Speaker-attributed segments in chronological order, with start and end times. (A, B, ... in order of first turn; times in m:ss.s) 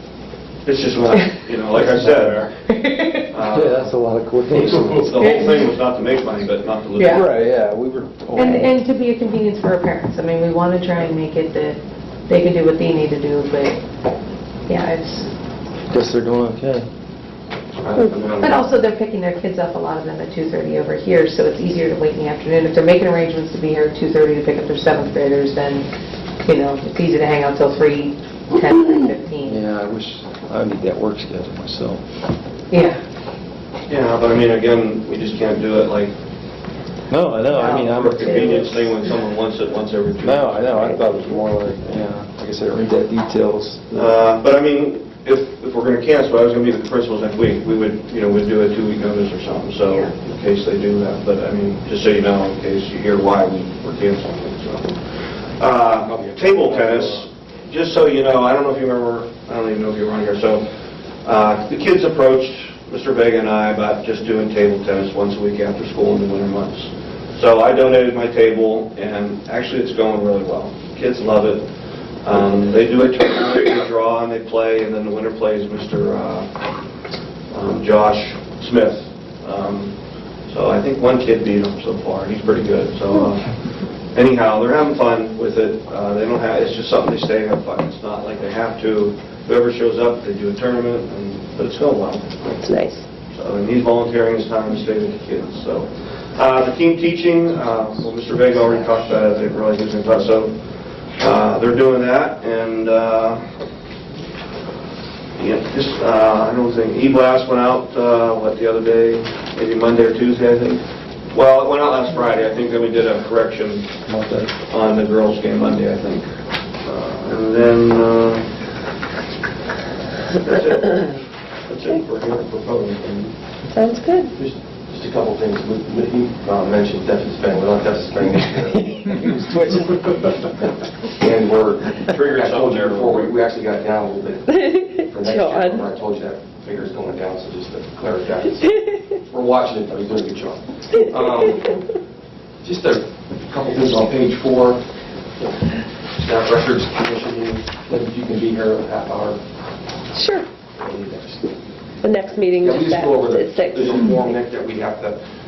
0:00.6-0:02.5 A
0:01.7-0:02.4 B
0:02.7-0:03.3 C
0:03.3-0:03.9 A
0:03.5-0:05.1 B
0:04.5-0:07.3 A
0:05.2-0:05.7 C
0:07.0-0:07.2 C
0:07.1-0:08.7 B
0:08.4-0:13.8 C
0:14.7-0:15.3 C
0:15.9-0:16.9 B
0:17.8-0:18.6 D
0:18.1-0:18.4 A
0:18.4-0:25.9 C
0:26.4-0:29.6 C
0:29.4-0:32.0 B
0:32.7-0:33.0 C
0:33.9-0:36.1 A
0:37.1-0:39.0 B
0:37.6-0:38.6 C
0:37.6-0:41.4 A
0:40.2-0:44.1 B
0:43.9-1:00.7 A
0:56.1-0:57.2 B
1:01.2-1:11.7 A
1:12.2-1:16.5 A
1:17.5-1:20.0 A
1:20.5-1:32.6 A
1:32.6-1:33.0 E
1:33.3-1:40.6 A
1:41.1-1:43.4 A
1:45.4-1:53.9 A
1:54.1-1:54.5 B
1:54.6-1:58.5 A
2:00.4-2:03.3 A
2:03.7-2:04.3 E
2:04.4-2:08.9 D
2:09.1-2:10.3 B
2:11.2-2:21.8 D
2:12.1-2:13.3 A
2:14.6-2:15.9 E
2:22.6-2:24.8 D
2:26.2-2:29.4 D
2:30.1-2:30.5 E
2:30.8-2:31.5 D
2:32.0-2:34.2 E
2:32.6-2:35.2 D